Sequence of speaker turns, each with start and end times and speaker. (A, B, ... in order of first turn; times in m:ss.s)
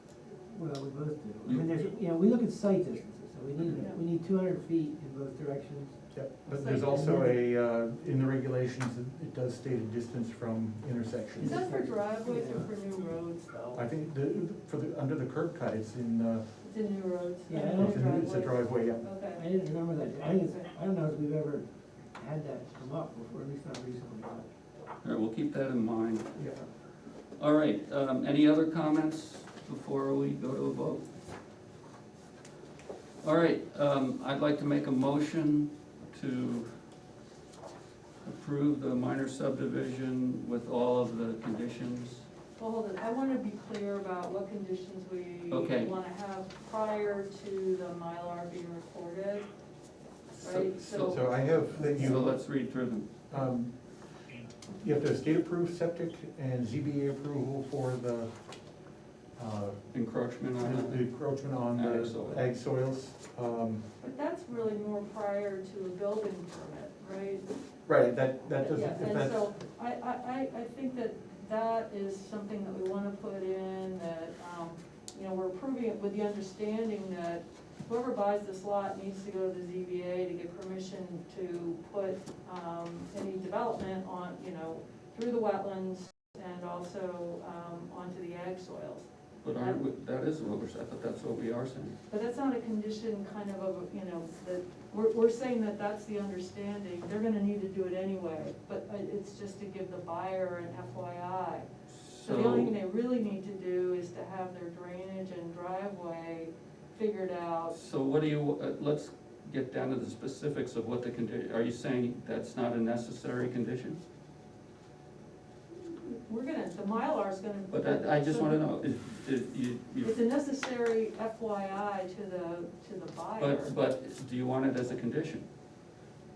0:00.3-0:06.0 A
0:01.4-0:01.7 B
0:06.1-0:11.7 C
0:06.5-0:07.0 D
0:06.9-0:07.4 A
0:11.4-0:12.7 A
0:11.4-0:13.8 D
0:13.7-0:16.4 C
0:16.6-0:19.4 D
0:17.5-0:18.0 A
0:17.8-0:19.0 C
0:19.3-0:24.5 A
0:25.0-0:26.4 B
0:26.4-0:26.6 C
0:27.4-0:31.1 B
0:33.2-0:36.7 B
0:38.2-0:42.2 B
0:42.6-0:49.5 D
0:45.5-0:45.9 B
0:50.4-0:53.1 B
0:50.4-0:51.2 D
0:50.8-0:52.4 C
0:53.3-0:54.0 C
0:54.6-0:58.3 C
0:59.4-0:59.8 C
0:59.9-1:02.4 B
1:00.6-1:03.8 C
1:04.0-1:07.5 D
1:07.9-1:09.5 C
1:08.5-1:29.8 D
1:29.4-1:32.0 B
1:32.1-1:41.7 D
1:41.9-1:42.7 B
1:42.2-1:47.8 D
1:47.7-1:54.0 B
1:55.7-1:58.6 D
1:57.7-2:00.1 B
2:00.0-2:03.7 D
2:03.4-2:05.4 B